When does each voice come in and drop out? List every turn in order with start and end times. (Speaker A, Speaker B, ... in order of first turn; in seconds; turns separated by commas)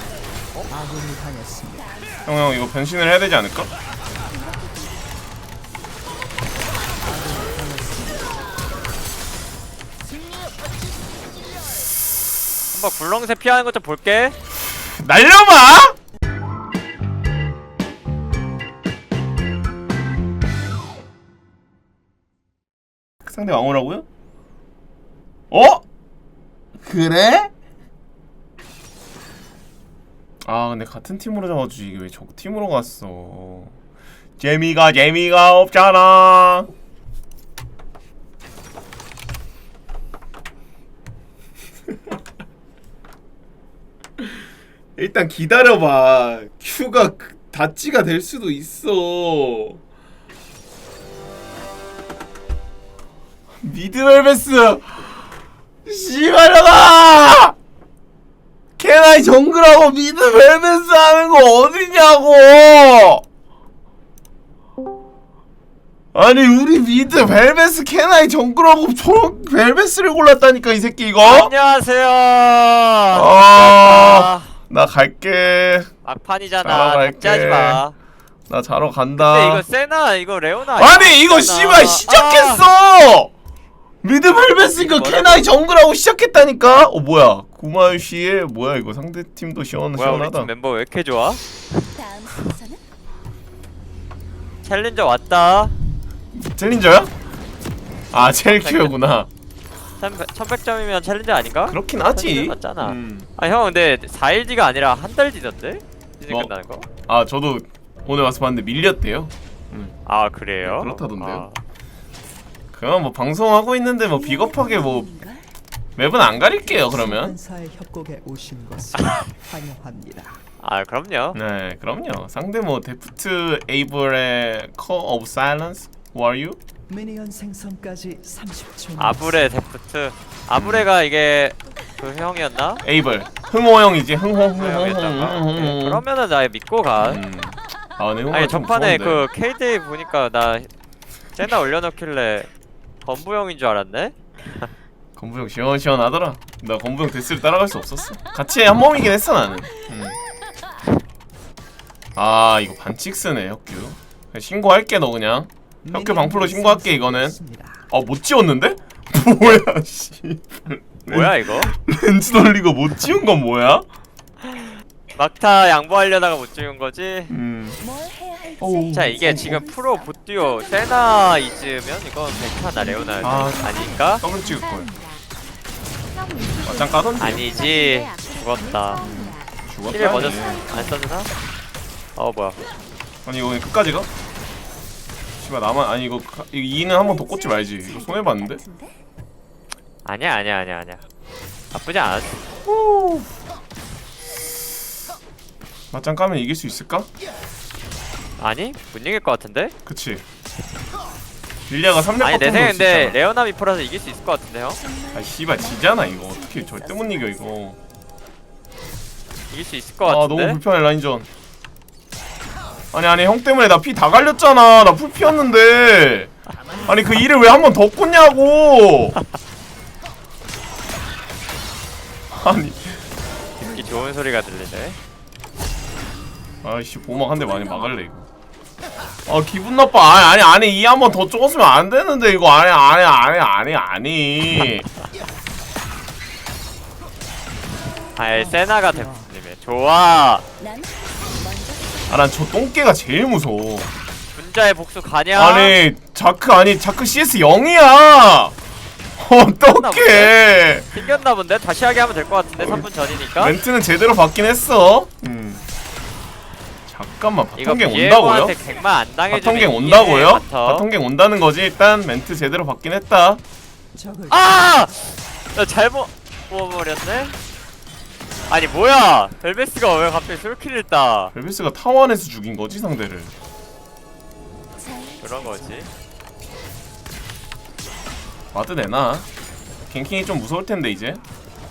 Speaker A: 0.7-1.9, Speaker B: 1.8-2.3, Speaker C: 2.2-3.7, Speaker B: 4.2-5.1, Speaker A: 7.0-8.5, Speaker D: 12.7-14.3, Speaker C: 14.9-15.9, Speaker C: 23.2-24.0, Speaker C: 25.5-25.8, Speaker C: 26.8-27.5, Speaker C: 30.4-33.7, Speaker C: 34.4-36.7, Speaker C: 44.2-44.4, Speaker C: 45.0-49.8, Speaker C: 53.6-55.2, Speaker C: 55.8-57.5, Speaker C: 58.8-63.2, Speaker C: 66.1-71.5, Speaker D: 71.2-74.5, Speaker C: 73.1-75.9, Speaker D: 76.0-77.9, Speaker C: 76.6-77.8, Speaker C: 78.5-79.6, Speaker D: 79.2-82.6, Speaker C: 80.8-83.3, Speaker C: 84.0-90.5, Speaker D: 84.7-85.5, Speaker D: 89.9-91.4, Speaker B: 91.8-92.8, Speaker D: 94.6-95.7, Speaker C: 96.3-97.1, Speaker C: 98.1-99.3, Speaker D: 98.1-98.9, Speaker D: 100.0-106.9, Speaker C: 101.7-103.3, Speaker C: 107.1-109.9, Speaker D: 110.0-111.5, Speaker C: 110.6-111.5, Speaker C: 112.7-115.1, Speaker B: 114.1-115.5, Speaker C: 116.0-117.3, Speaker A: 116.3-120.4, Speaker D: 120.6-121.4, Speaker C: 121.3-126.6, Speaker A: 126.9-129.6, Speaker D: 129.0-132.8, Speaker C: 130.5-130.9, Speaker C: 132.8-136.0, Speaker D: 134.6-137.2, Speaker C: 137.0-139.2, Speaker D: 138.3-140.7, Speaker D: 141.3-142.5, Speaker D: 143.0-144.7, Speaker C: 145.2-150.2, Speaker C: 152.1-157.4, Speaker A: 155.8-157.9, Speaker C: 157.9-163.8, Speaker D: 161.1-161.7, Speaker D: 165.2-167.3, Speaker C: 167.3-167.8, Speaker B: 167.8-175.3, Speaker C: 168.6-169.6, Speaker D: 168.9-174.2, Speaker C: 173.2-174.9, Speaker B: 176.0-181.0, Speaker C: 176.6-177.5, Speaker D: 177.2-179.1, Speaker C: 178.9-180.9, Speaker D: 179.9-181.3, Speaker D: 182.2-182.6, Speaker C: 183.2-184.1, Speaker C: 185.4-188.6, Speaker B: 186.9-189.0, Speaker D: 190.0-191.0, Speaker D: 191.7-192.3, Speaker C: 192.6-193.3, Speaker C: 195.9-197.1, Speaker D: 198.4-199.7, Speaker C: 199.8-200.2, Speaker C: 201.7-203.2, Speaker D: 202.2-204.8, Speaker B: 204.8-207.5, Speaker C: 205.1-207.8, Speaker D: 209.5-210.6, Speaker C: 210.0-211.3, Speaker C: 212.9-216.3, Speaker C: 216.8-219.2, Speaker C: 222.3-223.0, Speaker D: 223.6-225.0, Speaker C: 226.6-228.2, Speaker B: 227.5-227.9, Speaker C: 229.2-234.9, Speaker D: 238.2-240.4, Speaker A: 238.3-239.3, Speaker B: 240.6-242.2, Speaker C: 242.1-243.9, Speaker D: 244.3-245.8, Speaker C: 245.3-248.5, Speaker C: 249.2-250.9, Speaker D: 249.6-250.3, Speaker D: 250.9-253.6, Speaker C: 252.6-255.6, Speaker C: 256.9-258.6, Speaker D: 257.6-260.9, Speaker C: 259.3-263.4, Speaker A: 263.9-264.7, Speaker D: 264.3-265.0, Speaker D: 265.5-267.4, Speaker D: 268.5-271.3, Speaker C: 271.3-273.3, Speaker B: 274.8-275.9, Speaker D: 275.2-275.9, Speaker C: 278.5-279.3, Speaker C: 279.9-281.2